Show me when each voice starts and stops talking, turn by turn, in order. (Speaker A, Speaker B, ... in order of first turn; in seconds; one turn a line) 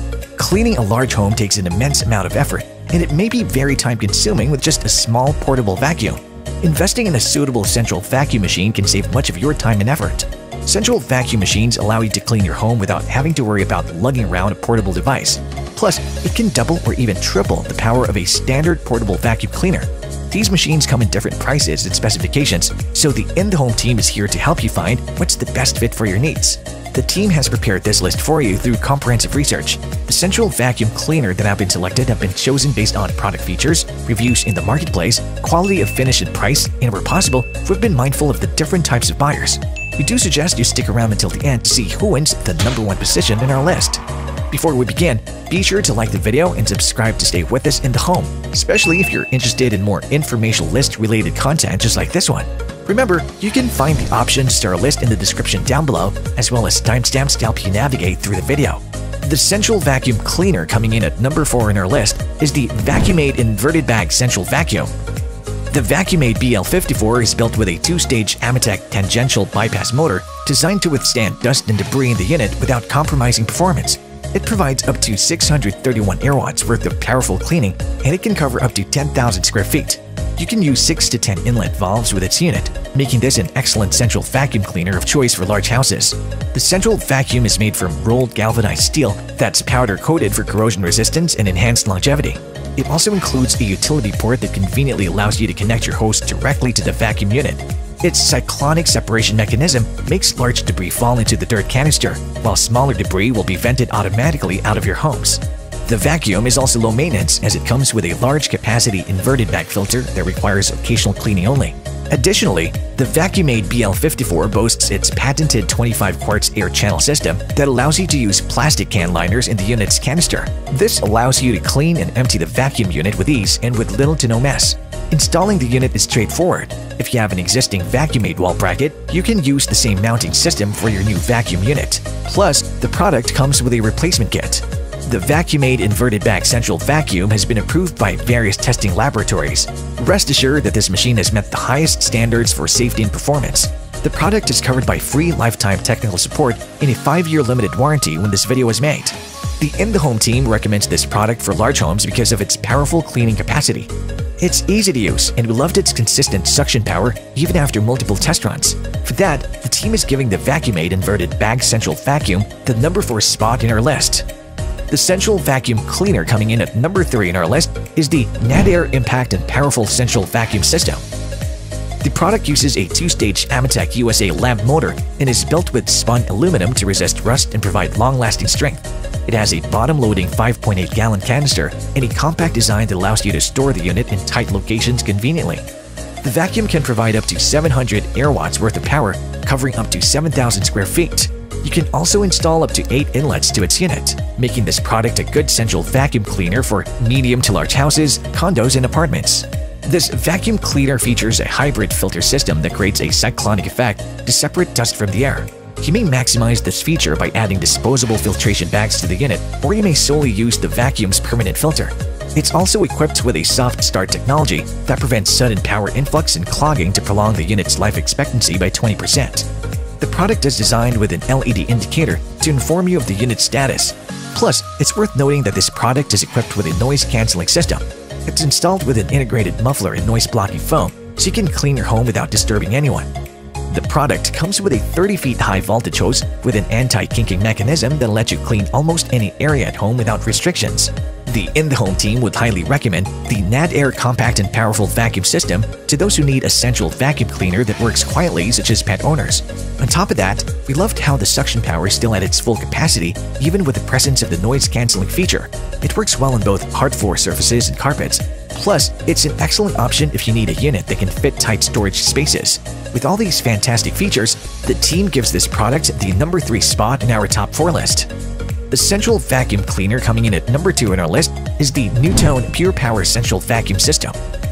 Speaker A: 0.4-64.9
Speaker A: 65.7-164.3
Speaker A: 164.9-171.0
Speaker A: 172.0-185.7
Speaker A: 186.2-219.5
Speaker A: 220.0-233.1
Speaker A: 233.7-268.1
Speaker A: 268.7-274.2